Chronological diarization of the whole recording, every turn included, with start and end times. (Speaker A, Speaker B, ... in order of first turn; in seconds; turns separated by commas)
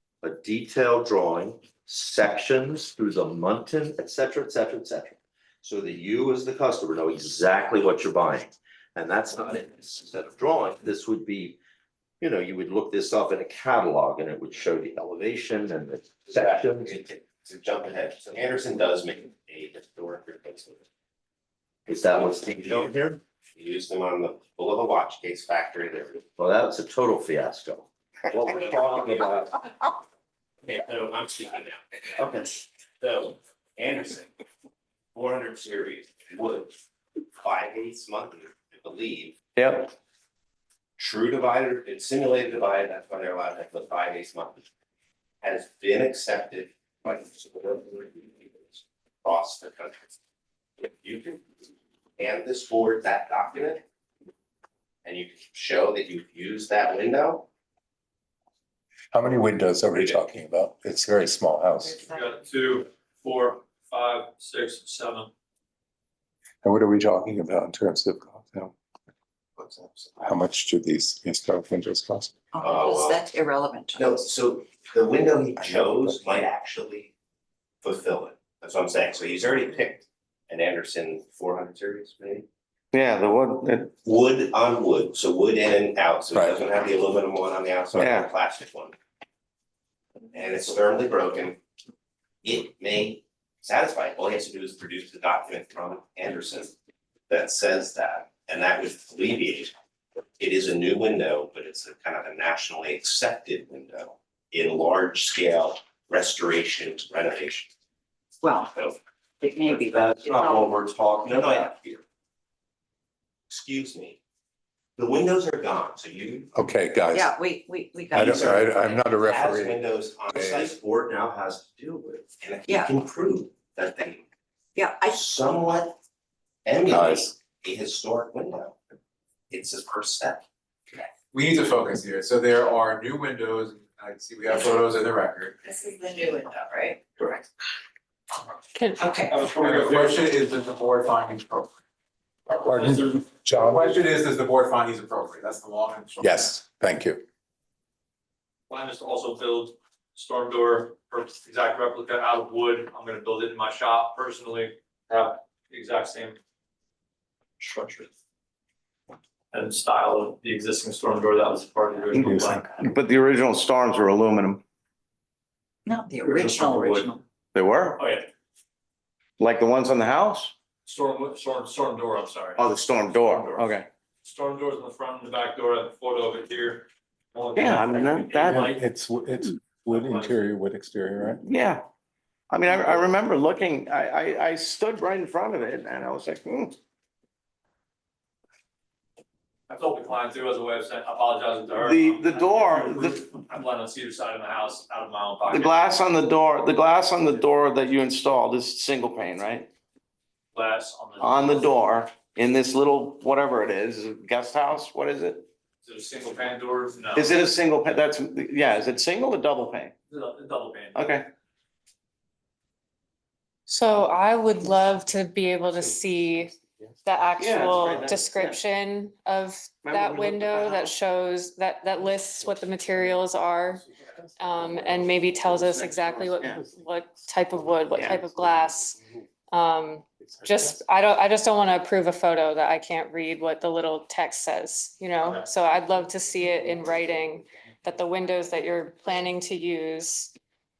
Speaker A: 0.2-11.6, Speaker A: 12.2-17.0, Speaker B: 16.3-20.8, Speaker A: 21.9-23.2, Speaker B: 22.6-22.9, Speaker B: 23.5-26.3, Speaker A: 26.4-29.6, Speaker B: 28.4-29.3, Speaker B: 30.6-34.3, Speaker A: 32.2-32.4, Speaker B: 35.1-36.7, Speaker B: 37.4-39.5, Speaker A: 39.5-39.9, Speaker B: 41.0-44.6, Speaker B: 45.4-50.1, Speaker B: 50.8-51.4, Speaker B: 52.2-53.8, Speaker B: 55.0-57.5, Speaker C: 59.1-62.0, Speaker D: 61.8-62.4, Speaker E: 62.1-65.3, Speaker C: 66.6-68.7, Speaker C: 69.7-72.3, Speaker D: 72.5-74.2, Speaker B: 72.6-73.2, Speaker B: 73.9-77.1, Speaker B: 77.8-82.5, Speaker F: 82.9-83.9, Speaker B: 84.0-88.9, Speaker F: 88.0-88.3, Speaker B: 90.3-91.6, Speaker B: 92.4-96.7, Speaker B: 97.3-99.7, Speaker B: 100.4-107.7, Speaker D: 108.4-110.7, Speaker B: 109.6-112.0, Speaker D: 111.3-111.7, Speaker B: 113.5-114.2, Speaker B: 115.0-116.5, Speaker C: 116.5-117.3, Speaker D: 117.1-119.2, Speaker C: 118.1-120.7, Speaker B: 118.1-124.2, Speaker A: 122.0-122.3, Speaker D: 122.7-122.9, Speaker D: 124.7-125.2, Speaker B: 125.0-126.0, Speaker B: 126.7-128.8, Speaker C: 126.9-127.3, Speaker B: 129.5-130.4, Speaker G: 131.3-135.5, Speaker D: 135.6-137.4, Speaker H: 138.7-139.0, Speaker D: 139.0-139.4, Speaker E: 139.3-140.3, Speaker G: 139.6-141.7, Speaker E: 142.5-143.2, Speaker C: 142.7-143.8, Speaker G: 143.6-146.2, Speaker C: 146.2-147.2, Speaker E: 148.7-156.4, Speaker E: 157.6-158.1, Speaker E: 159.5-162.8, Speaker F: 162.2-164.6, Speaker C: 162.2-162.7, Speaker D: 165.8-167.2, Speaker E: 166.2-167.1, Speaker F: 167.5-168.0, Speaker E: 168.0-168.3, Speaker F: 169.4-170.5, Speaker E: 170.8-173.7, Speaker F: 172.6-173.9, Speaker E: 174.2-178.8, Speaker F: 177.6-178.7, Speaker C: 178.5-181.4, Speaker E: 179.9-180.3, Speaker F: 181.4-181.8, Speaker F: 182.5-186.8, Speaker E: 189.7-195.8, Speaker F: 191.8-193.2, Speaker F: 195.5-199.7, Speaker E: 200.5-201.7, Speaker F: 201.2-205.5, Speaker E: 205.8-207.3, Speaker F: 207.1-209.9, Speaker E: 210.1-211.0, Speaker F: 210.9-211.3, Speaker H: 213.7-216.5, Speaker H: 217.0-223.8, Speaker F: 217.4-218.6, Speaker F: 219.8-220.9, Speaker H: 224.4-240.3, Speaker F: 225.4-226.6, Speaker F: 227.9-228.2